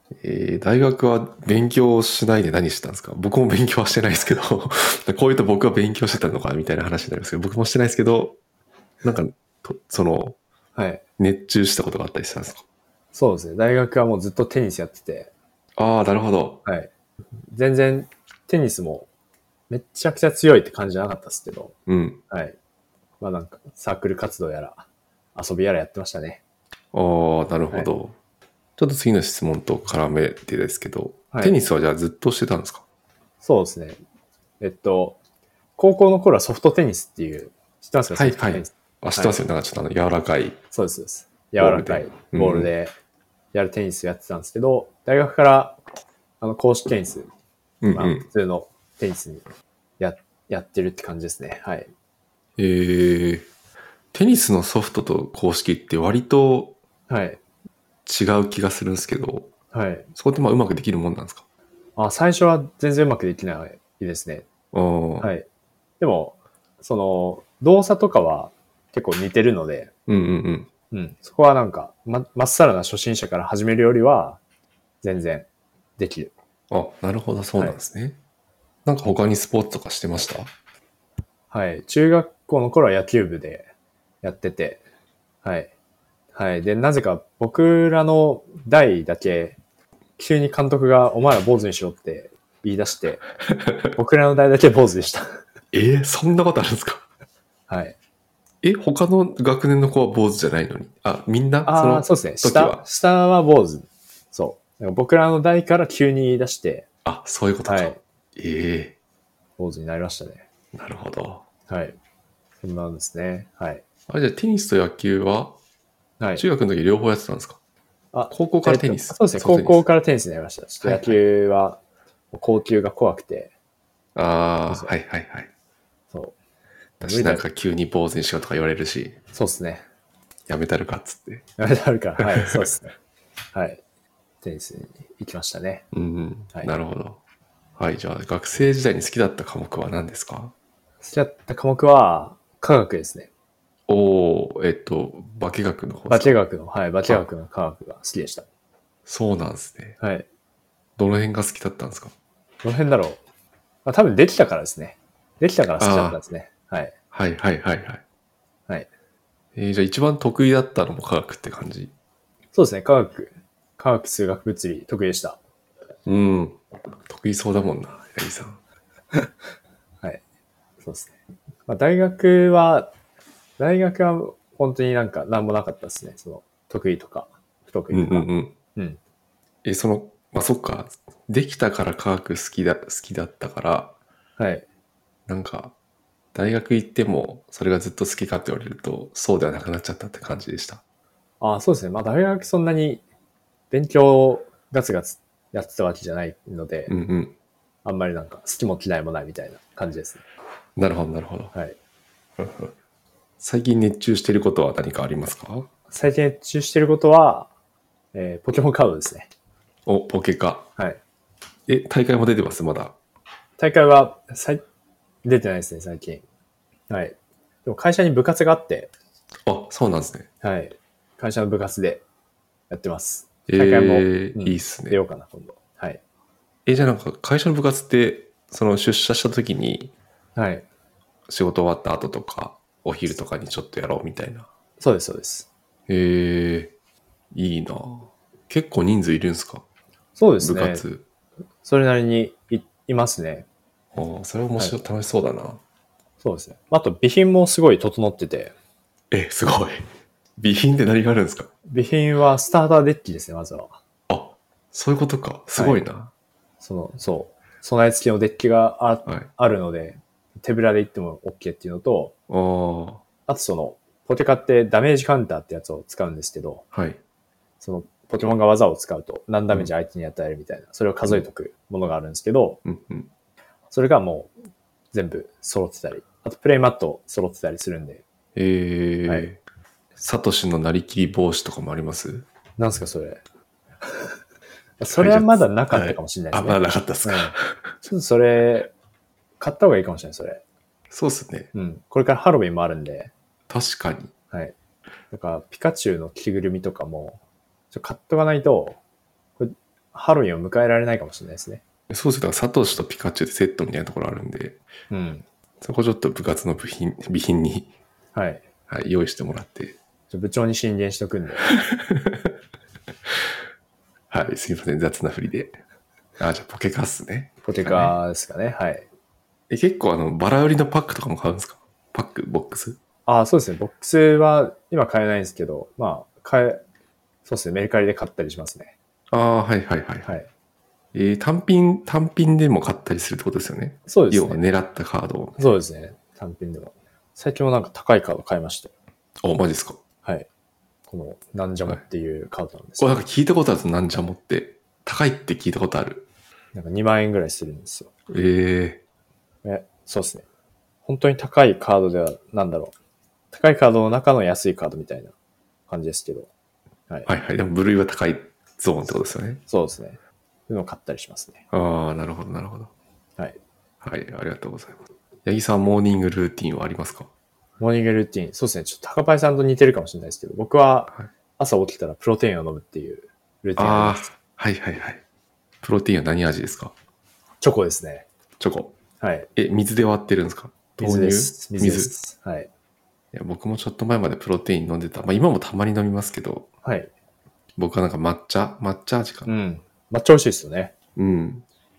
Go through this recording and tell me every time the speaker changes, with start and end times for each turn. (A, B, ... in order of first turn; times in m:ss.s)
0:00.2-0:08.4 A
0:09.0-0:10.4 A
0:10.7-0:11.0 B
0:11.2-0:12.6 A
0:13.1-0:15.3 B
0:15.8-0:16.6 A
0:16.6-0:19.1 B
0:19.7-0:21.7 B
0:21.9-0:22.2 A
0:22.3-0:22.6 B
0:23.2-0:26.4 B
0:26.9-0:28.1 A
0:28.8-0:32.8 A
0:31.3-0:31.6 B
0:33.4-0:34.0 B
0:34.6-0:35.2 B
0:35.8-0:39.4 B
0:38.1-0:40.6 A
0:40.7-0:42.9 B
0:41.6-0:42.7 A
0:43.5-0:45.8 B
0:46.4-0:47.3 B
0:47.8-0:48.2 A
0:47.9-0:49.4 B
0:50.0-0:51.9 B
0:52.6-0:53.5 A
0:54.1-0:56.8 A
0:57.1-0:57.4 B
0:58.0-0:59.5 A
0:59.7-1:00.1 B
1:00.1-1:01.4 A
1:02.0-1:04.4 B
1:04.7-1:05.3 A
1:05.2-1:05.4 B
1:06.0-1:09.9 B
1:10.1-1:10.7 A
1:10.9-1:14.4 B
1:15.0-1:15.5 B
1:16.0-1:16.3 B
1:16.7-1:18.2 A
1:18.8-1:20.5 A
1:21.5-1:23.7 B
1:24.2-1:24.8 B
1:25.4-1:25.7 B
1:26.3-1:29.6 B
1:30.2-1:33.2 B
1:33.9-1:35.4 B
1:35.7-1:37.0 A
1:37.7-1:38.0 B
1:38.6-1:42.8 A
1:41.6-1:46.9 B
1:47.0-1:48.9 A
1:47.6-1:48.0 B
1:49.6-1:50.4 B
1:50.7-1:51.4 A
1:51.7-1:52.0 B
1:52.6-1:53.8 B
1:54.1-1:55.6 A
1:56.4-1:57.6 A
1:58.1-2:01.8 B
1:58.3-1:59.8 A
2:00.8-2:01.2 A
2:02.3-2:03.5 B
2:04.1-2:05.5 A
2:07.0-2:09.2 A
2:07.0-2:07.4 B
2:09.3-2:09.8 B
2:10.5-2:11.4 A
2:11.6-2:12.9 B
2:12.2-2:12.7 A
2:13.5-2:13.8 B
2:14.4-2:15.8 B
2:15.9-2:17.2 A
2:17.8-2:20.5 A
2:21.0-2:23.3 B
2:23.9-2:26.4 A
2:26.1-2:28.4 B
2:29.0-2:30.0 A
2:30.0-2:30.2 B
2:31.0-2:32.1 A
2:32.6-2:33.2 B
2:33.8-2:36.9 B
2:35.8-2:36.2 A
2:37.1-2:38.0 A
2:39.5-2:41.9 A
2:42.5-2:45.4 B
2:46.0-2:48.6 A
2:50.8-2:51.1 B
2:51.7-2:52.9 B
2:53.6-2:59.0 B
2:57.9-2:58.6 A
2:59.6-3:03.9 A
3:04.4-3:04.6 B
3:05.3-3:05.7 A
3:06.3-3:10.8 A
3:11.4-3:13.0 B
3:13.7-3:16.9 B
3:16.9-3:17.3 A
3:17.8-3:20.2 B
3:20.8-3:21.5 A
3:22.4-3:22.7 A
3:23.4-3:25.7 A
3:25.9-3:27.5 B
3:28.1-3:29.3 B
3:29.8-3:30.7 A
3:31.7-3:32.9 A
3:33.6-3:34.6 B
3:35.2-3:36.2 B
3:36.9-3:38.9 B
3:39.4-3:40.3 A
3:40.4-3:42.0 B
3:42.7-3:46.0 B
3:43.5-3:45.0 A
3:46.6-3:49.9 A
3:50.3-3:50.6 B
3:51.3-3:54.5 A
3:54.8-3:55.5 B
3:55.9-3:56.7 A
3:57.3-3:59.6 A
4:00.2-4:00.8 B
4:00.4-4:01.0 A
4:01.6-4:03.5 B
4:03.9-4:05.6 A
4:06.2-4:08.5 B
4:09.1-4:09.8 A
4:10.4-4:11.5 A
4:11.6-4:13.8 B
4:14.1-4:16.1 A
4:15.5-4:15.8 B
4:16.6-4:22.1 B
4:22.3-4:23.0 A
4:23.3-4:26.6 B
4:26.7-4:27.0 A
4:27.6-4:32.6 B
4:32.6-4:33.1 A
4:33.7-4:34.3 B
4:34.9-4:38.0 B
4:38.4-4:39.4 A
4:40.0-4:42.2 A
4:42.6-4:43.2 B
4:43.8-4:44.1 B
4:44.8-4:48.7 B
4:44.9-4:47.7 A
4:49.4-4:50.4 B
4:50.9-4:51.5 A
4:51.5-4:53.1 B
4:53.5-4:54.1 A
4:55.1-4:57.2 B
4:57.7-4:58.8 B
4:59.4-5:01.6 B
5:01.9-5:04.6 A
5:04.9-5:05.2 B
5:05.6-5:07.7 A
5:08.1-5:08.4 B
5:08.7-5:09.8 A
5:10.1-5:11.4 B
5:11.6-5:12.3 A
5:14.1-5:15.6 A
5:16.2-5:18.0 A
5:17.4-5:18.8 B
5:19.5-5:22.8 A
5:23.0-5:26.6 B
5:27.2-5:28.7 B
5:29.1-5:30.1 A
5:30.9-5:35.4 A
5:33.9-5:34.4 B
5:35.4-5:38.7 B
5:39.2-5:39.8 A
5:40.9-5:43.0 B
5:42.8-5:46.0 A
5:46.5-5:47.9 B
5:48.1-5:48.8 A
5:49.4-5:50.2 B
5:50.8-5:52.7 B
5:53.3-5:55.1 B
5:55.7-5:56.3 B
5:57.0-5:59.4 A
5:59.5-6:01.4 B
6:01.5-6:02.7 A
6:03.8-6:07.1 A
6:07.6-6:14.1 B
6:13.6-6:15.0 A
6:15.6-6:16.7 A
6:17.4-6:18.0 B
6:18.4-6:18.7 A
6:19.0-6:19.3 B
6:19.4-6:21.9 A
6:20.8-6:22.5 B
6:23.1-6:26.5 A
6:26.6-6:26.9 B
6:27.6-6:29.3 A
6:29.3-6:30.7 B
6:31.0-6:31.4 A